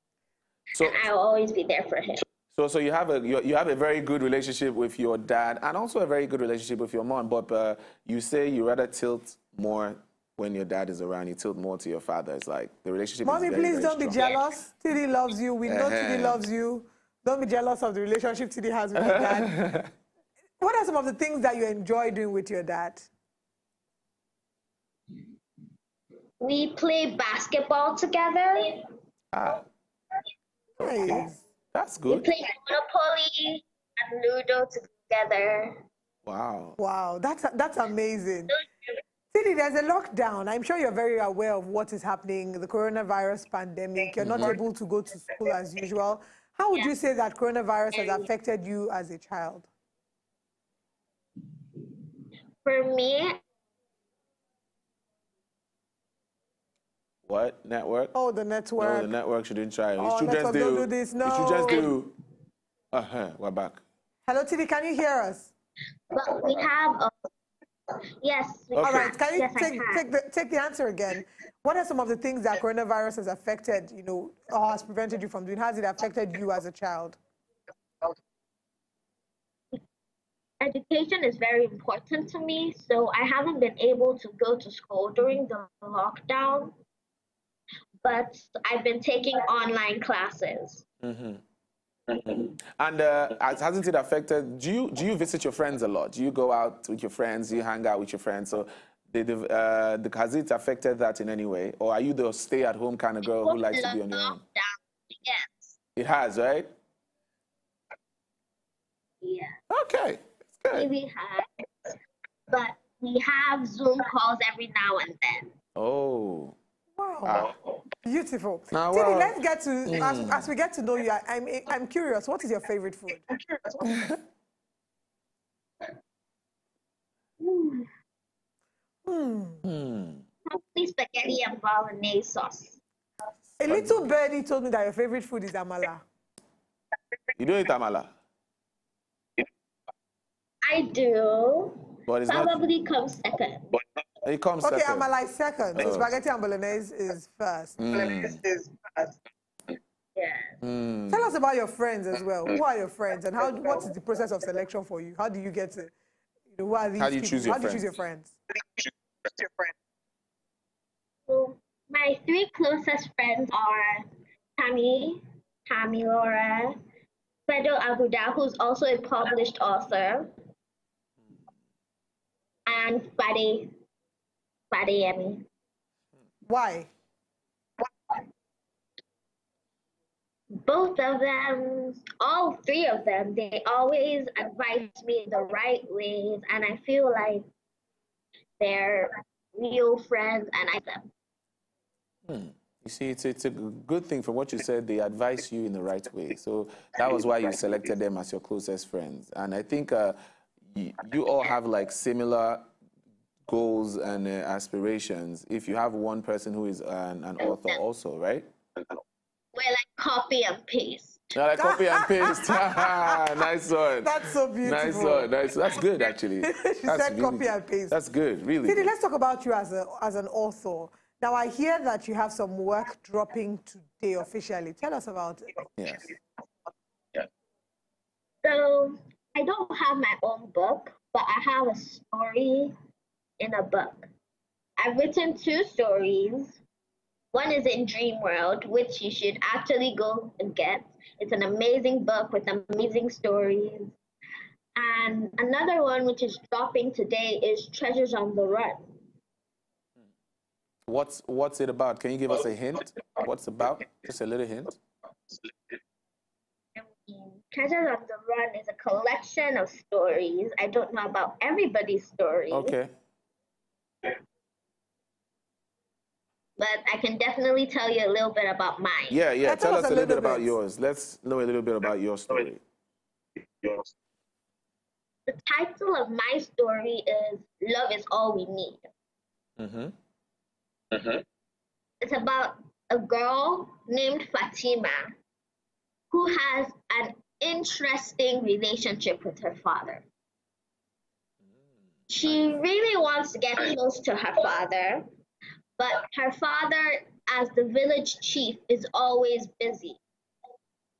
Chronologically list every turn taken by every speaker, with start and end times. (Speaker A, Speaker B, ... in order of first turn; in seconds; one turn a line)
Speaker A: 0.7-1.0
Speaker B: 0.8-2.2
Speaker A: 2.5-14.2
Speaker C: 13.2-19.6
Speaker A: 15.6-16.4
Speaker A: 19.0-19.9
Speaker C: 20.6-23.1
Speaker B: 26.4-28.9
Speaker A: 29.3-29.6
Speaker C: 30.8-31.4
Speaker A: 30.8-32.3
Speaker B: 32.1-35.8
Speaker A: 36.2-36.8
Speaker C: 36.8-38.6
Speaker C: 39.3-49.7
Speaker A: 44.2-44.6
Speaker B: 47.9-48.3
Speaker B: 52.6-53.4
Speaker A: 57.2-58.1
Speaker C: 58.1-59.1
Speaker A: 58.8-62.1
Speaker C: 60.0-61.9
Speaker A: 62.9-63.8
Speaker C: 64.3-65.5
Speaker B: 66.1-67.1
Speaker B: 68.2-70.1
Speaker C: 68.8-77.2
Speaker B: 80.6-86.8
Speaker B: 88.0-90.8
Speaker A: 91.0-91.4
Speaker A: 92.1-104.4
Speaker B: 103.2-105.8
Speaker A: 106.0-106.7
Speaker B: 109.2-109.5
Speaker A: 109.7-110.9
Speaker B: 110.7-111.9
Speaker B: 112.5-115.5
Speaker A: 115.8-116.5
Speaker C: 117.0-117.5
Speaker A: 117.2-117.5
Speaker C: 118.0-123.3
Speaker A: 118.7-119.3
Speaker A: 119.9-120.5
Speaker A: 123.8-124.1
Speaker B: 127.4-127.9
Speaker C: 129.1-129.6
Speaker A: 129.6-130.2
Speaker B: 130.4-132.8
Speaker C: 133.6-136.0
Speaker A: 133.7-134.0
Speaker A: 137.4-138.1
Speaker B: 140.6-143.8
Speaker A: 142.1-142.6
Speaker A: 144.2-145.1
Speaker C: 144.6-147.8
Speaker A: 145.8-146.1
Speaker A: 147.8-148.4
Speaker B: 150.1-150.6
Speaker A: 150.6-151.3
Speaker C: 151.1-155.9
Speaker C: 156.5-158.3
Speaker A: 157.0-157.9
Speaker B: 161.3-166.8
Speaker B: 167.5-170.3
Speaker B: 172.7-173.7
Speaker B: 174.7-175.5
Speaker C: 176.4-176.9
Speaker B: 180.5-187.5
Speaker B: 188.6-191.1
Speaker A: 192.3-200.2
Speaker A: 200.7-202.7
Speaker A: 203.5-208.5
Speaker B: 207.4-207.8
Speaker B: 209.5-211.2
Speaker A: 211.3-218.9
Speaker C: 211.6-213.2
Speaker C: 214.0-215.3
Speaker C: 216.4-217.9
Speaker C: 218.6-225.7
Speaker A: 225.8-226.1
Speaker B: 228.4-232.7
Speaker B: 233.4-234.1
Speaker B: 234.8-236.6
Speaker B: 237.3-243.9
Speaker B: 244.8-249.0
Speaker A: 250.8-254.8
Speaker B: 256.8-262.8
Speaker A: 262.5-262.9
Speaker B: 266.6-269.3
Speaker A: 269.1-272.6
Speaker C: 269.4-270.5
Speaker B: 275.3-278.8
Speaker A: 279.6-279.9
Speaker B: 282.0-285.1
Speaker B: 286.1-290.1
Speaker B: 292.1-295.1
Speaker B: 295.8-300.0